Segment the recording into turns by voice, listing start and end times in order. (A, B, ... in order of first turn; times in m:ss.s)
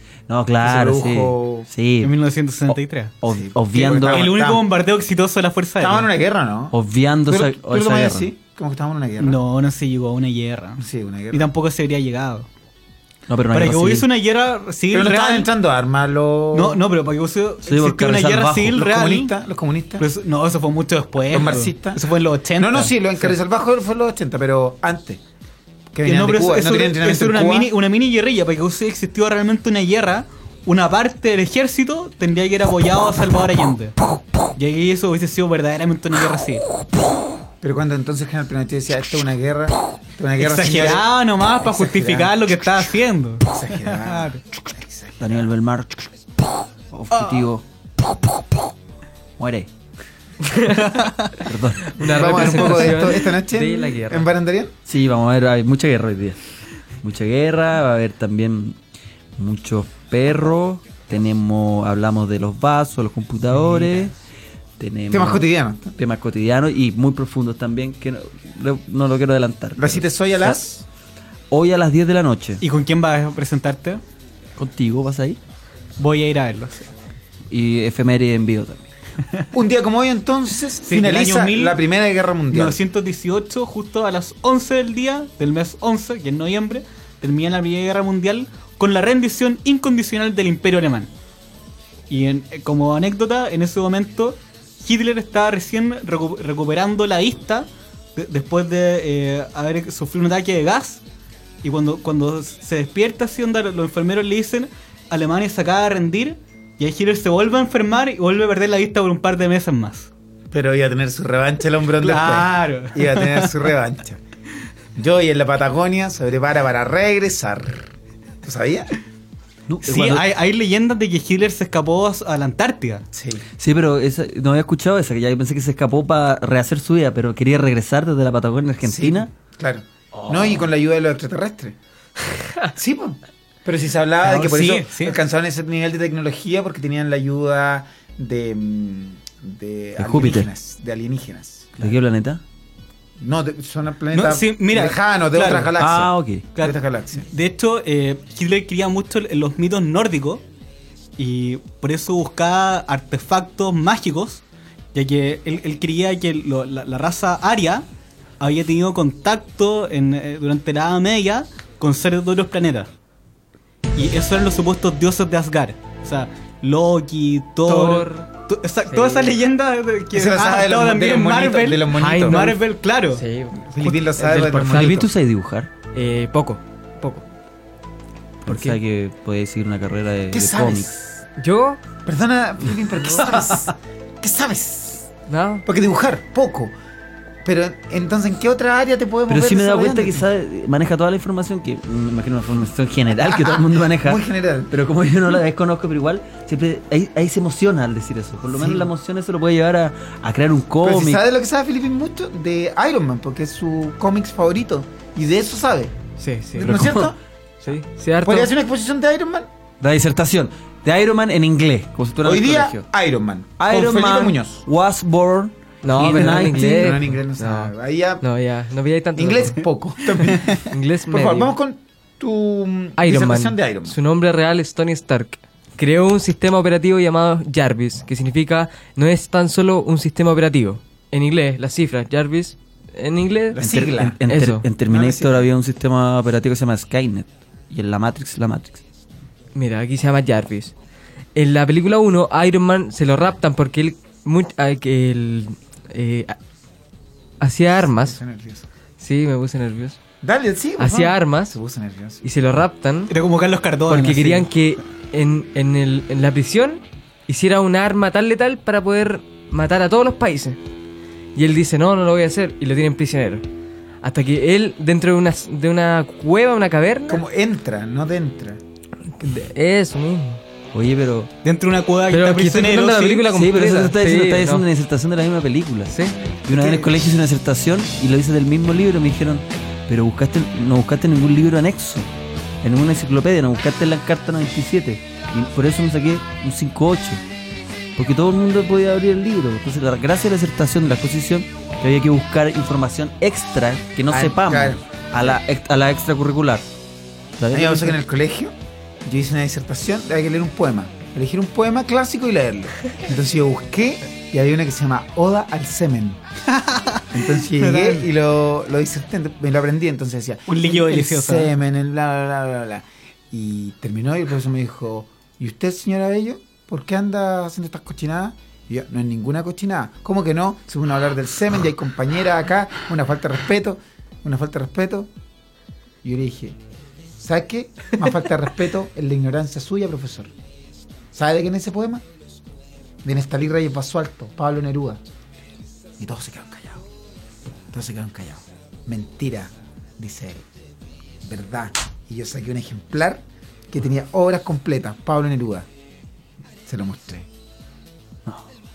0:00.3-0:02.1 A
0:00.6-0:01.7 B
0:02.0-0:03.1 C
0:02.7-0:04.3 A
0:03.3-0:04.7 B
0:03.7-0:06.1 C
0:05.8-0:09.4 B
0:06.7-0:08.3 A
0:09.2-0:12.5 C
0:10.8-0:11.5 B
0:13.3-0:14.1 A
0:13.5-0:15.5 C
0:14.9-0:16.8 B
0:16.5-0:19.3 C
0:17.6-0:18.8 A
0:18.7-0:20.0 B
0:20.0-0:23.3 C
0:21.3-0:22.0 B
0:22.6-0:25.2 B
0:25.9-0:27.7 B
0:26.0-0:34.0 C
0:34.6-0:36.6 C
0:37.6-0:42.4 B
0:40.4-0:44.4 C
0:43.5-0:45.3 B
0:45.2-0:46.1 A
0:46.9-0:47.6 A
0:47.1-0:47.4 C
0:49.4-0:49.7 A
0:50.4-0:50.9 D
0:50.8-0:51.3 C
0:51.4-0:52.9 A
0:51.8-0:54.3 D
0:52.0-0:54.7 B
0:54.9-0:56.4 A
0:57.0-0:58.8 A
0:59.4-1:04.1 A
1:03.6-1:03.9 C
1:04.8-1:10.6 A
1:05.1-1:05.9 B
1:09.8-1:10.8 B
1:11.5-1:12.6 A
1:12.6-1:14.0 C
1:14.6-1:15.4 A
1:16.0-1:16.9 C
1:17.5-1:18.9 A
1:19.5-1:22.8 B
1:20.8-1:21.8 C
1:22.5-1:31.1 C
1:32.1-1:41.0 C
1:41.6-1:50.1 C
1:50.5-1:54.2 B
1:52.0-1:53.5 C
1:55.0-1:57.8 B
1:58.4-1:59.0 B
1:59.7-2:00.3 A
1:59.8-2:03.1 C
2:03.1-2:03.4 B
2:03.6-2:09.3 A
2:08.8-2:11.8 B
2:10.2-2:10.7 A
2:12.8-2:22.0 B
2:14.2-2:15.2 C
2:20.0-2:20.5 A
2:21.8-2:22.4 A
2:23.2-2:27.3 B
2:24.1-2:25.7 C
2:25.8-2:26.4 A
2:26.6-2:30.4 C
2:31.2-2:34.4 C
2:34.9-2:37.9 C
2:38.4-2:42.9 C
2:43.9-2:53.2 C
2:47.7-2:48.3 D
2:48.9-2:49.4 D
2:50.1-2:52.5 B
2:51.9-2:52.6 D
2:53.1-2:53.6 D
2:53.6-2:55.1 B
2:54.2-2:55.0 D
2:54.5-2:55.7 A
2:55.9-2:57.2 D
2:58.4-3:00.9 A
2:58.5-2:58.8 D
3:00.3-3:01.2 B
3:01.4-3:01.8 D
3:02.0-3:05.1 B
3:05.3-3:05.6 D
3:05.7-3:06.7 B
3:07.4-3:10.2 B
3:09.3-3:21.2 A
3:13.3-3:14.7 B
3:18.6-3:18.9 B
3:20.8-3:25.9 B
3:26.2-3:27.1 D
3:26.6-3:27.2 B
3:26.7-3:27.1 A
3:27.6-3:28.5 D
3:28.2-3:29.5 B
3:29.8-3:32.8 A
3:32.2-3:34.6 B
3:33.6-3:37.0 A
3:35.8-3:39.6 D
3:36.0-3:38.2 B
3:39.2-3:44.0 B
3:40.2-3:41.5 D
3:43.0-3:53.6 D
3:53.5-3:54.2 B
3:53.6-3:58.8 A
3:54.3-3:54.7 D
3:54.8-3:55.5 B
3:59.6-4:00.7 D
4:01.4-4:06.4 D
4:07.4-4:08.2 D
4:08.0-4:08.6 B
4:09.0-4:10.0 D
4:10.2-4:12.2 B
4:10.8-4:11.6 D
4:12.2-4:13.1 D
4:13.1-4:14.5 C
4:13.9-4:20.6 D
4:21.4-4:23.4 D
4:24.0-4:27.2 D
4:27.1-4:28.6 B
4:29.2-4:30.4 D
4:30.7-4:31.3 A
4:31.4-4:33.2 C
4:32.1-4:34.6 D
4:33.3-4:42.1 A
4:35.9-4:36.2 D
4:36.5-4:37.0 B
4:42.6-4:47.2 A
4:48.0-4:56.7 A
4:54.3-4:55.4 B
4:57.4-4:58.0 A
4:57.5-4:58.5 B
4:59.0-5:06.2 B
5:06.5-5:08.0 C
5:07.1-5:25.1 B
5:10.5-5:11.5 C
5:26.0-5:26.6 B
5:27.2-5:30.3 B
5:31.1-5:32.0 B
5:33.0-5:35.0 B
5:36.0-5:36.8 B
5:37.7-5:40.4 B
5:41.2-5:45.7 B
5:46.7-5:47.3 B